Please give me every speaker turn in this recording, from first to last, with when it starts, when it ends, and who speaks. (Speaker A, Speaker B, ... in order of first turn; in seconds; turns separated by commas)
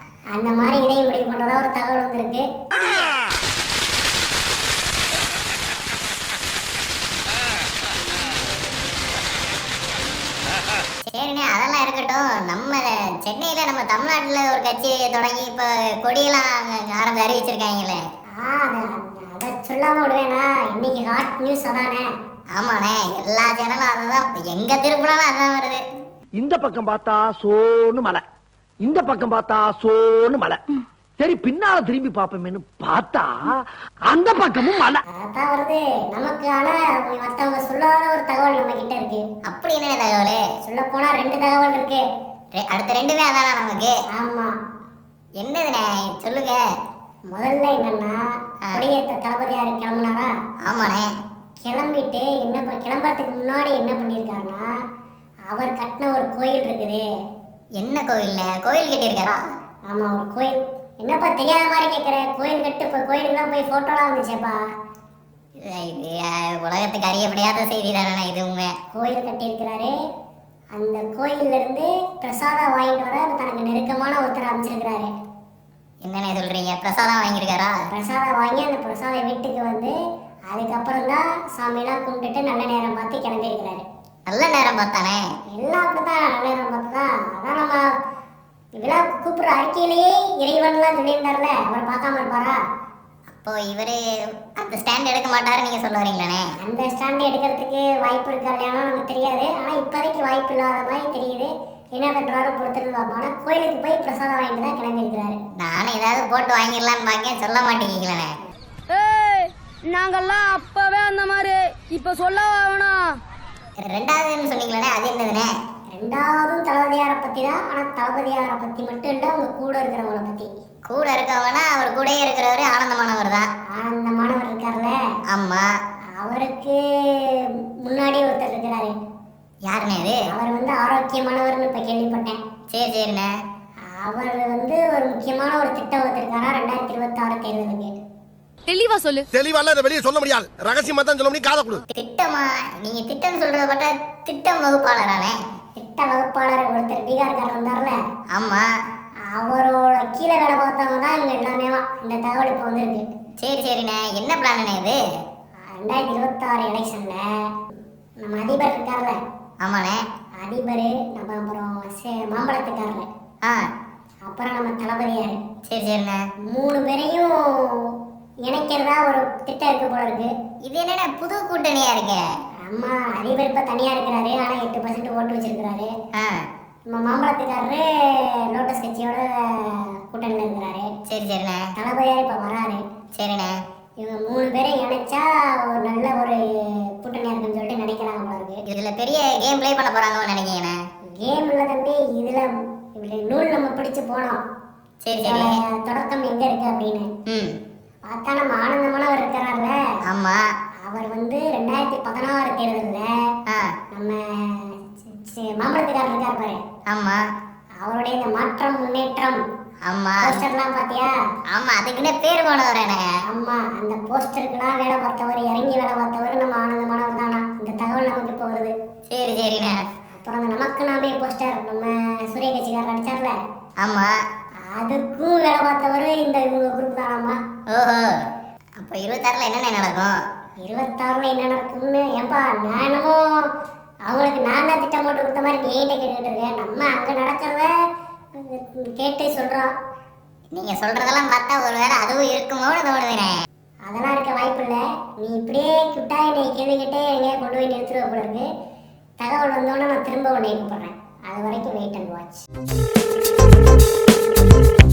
Speaker A: 0.3-2.5, Speaker B: 11.1-18.0, Speaker A: 18.4-22.1, Speaker B: 22.6-25.8, Speaker C: 26.4-28.2, Speaker C: 28.8-30.6, Speaker C: 31.2-33.5, Speaker C: 34.1-35.0, Speaker A: 35.1-39.2, Speaker B: 39.5-40.4, Speaker A: 40.6-42.0, Speaker B: 42.6-44.0, Speaker A: 44.1-44.5, Speaker B: 45.4-46.6, Speaker A: 47.3-48.2, Speaker A: 48.7-50.3, Speaker B: 50.6-51.1, Speaker A: 51.6-54.7, Speaker A: 55.5-57.1, Speaker B: 57.8-59.4, Speaker A: 59.9-64.6, Speaker B: 65.7-68.7, Speaker A: 68.9-69.9, Speaker A: 70.7-75.1, Speaker B: 76.0-77.8, Speaker A: 77.9-79.9, Speaker A: 80.5-83.8, Speaker B: 84.3-85.2, Speaker A: 85.5-87.9, Speaker A: 88.8-92.6, Speaker B: 93.3-94.0, Speaker B: 94.6-96.5, Speaker A: 96.6-105.4, Speaker B: 105.6-108.3, Speaker D: 108.9-113.2, Speaker B: 113.8-115.5, Speaker A: 115.9-120.5, Speaker B: 120.9-123.5, Speaker A: 123.7-125.0, Speaker B: 125.3-125.7, Speaker A: 126.2-128.9, Speaker B: 129.7-130.2, Speaker A: 130.3-132.4, Speaker B: 132.7-133.3, Speaker A: 133.9-137.9, Speaker E: 139.3-141.8, Speaker B: 141.9-145.4, Speaker A: 145.8-148.0, Speaker B: 148.3-148.7, Speaker A: 149.3-153.1, Speaker B: 153.4-155.0, Speaker A: 155.7-157.3, Speaker A: 158.2-159.2, Speaker B: 159.6-160.0, Speaker A: 160.4-163.1, Speaker A: 164.3-165.4, Speaker B: 165.7-166.2, Speaker A: 166.5-167.9, Speaker A: 168.5-170.3, Speaker B: 170.7-172.2, Speaker A: 172.7-175.9, Speaker B: 176.2-176.4, Speaker A: 176.9-180.9, Speaker B: 181.1-181.7, Speaker A: 181.8-182.8, Speaker B: 183.2-183.5, Speaker A: 184.0-188.6, Speaker B: 188.7-190.8, Speaker A: 191.1-194.4, Speaker B: 195.0-195.6, Speaker A: 195.2-197.1, Speaker B: 197.3-197.5, Speaker A: 198.1-199.8, Speaker B: 200.1-200.4, Speaker A: 200.8-203.1, Speaker A: 203.9-206.6, Speaker B: 206.9-207.2, Speaker A: 207.8-209.4, Speaker B: 209.8-210.4, Speaker A: 210.2-211.1, Speaker B: 211.5-213.1, Speaker A: 213.3-218.8, Speaker B: 219.1-219.8, Speaker A: 220.1-223.4, Speaker B: 223.8-224.1, Speaker A: 224.7-227.4, Speaker B: 227.7-228.2, Speaker B: 228.8-230.2, Speaker A: 230.6-233.2, Speaker A: 234.1-237.7, Speaker A: 238.4-239.7, Speaker B: 240.5-243.4, Speaker A: 243.9-248.5, Speaker A: 249.2-252.4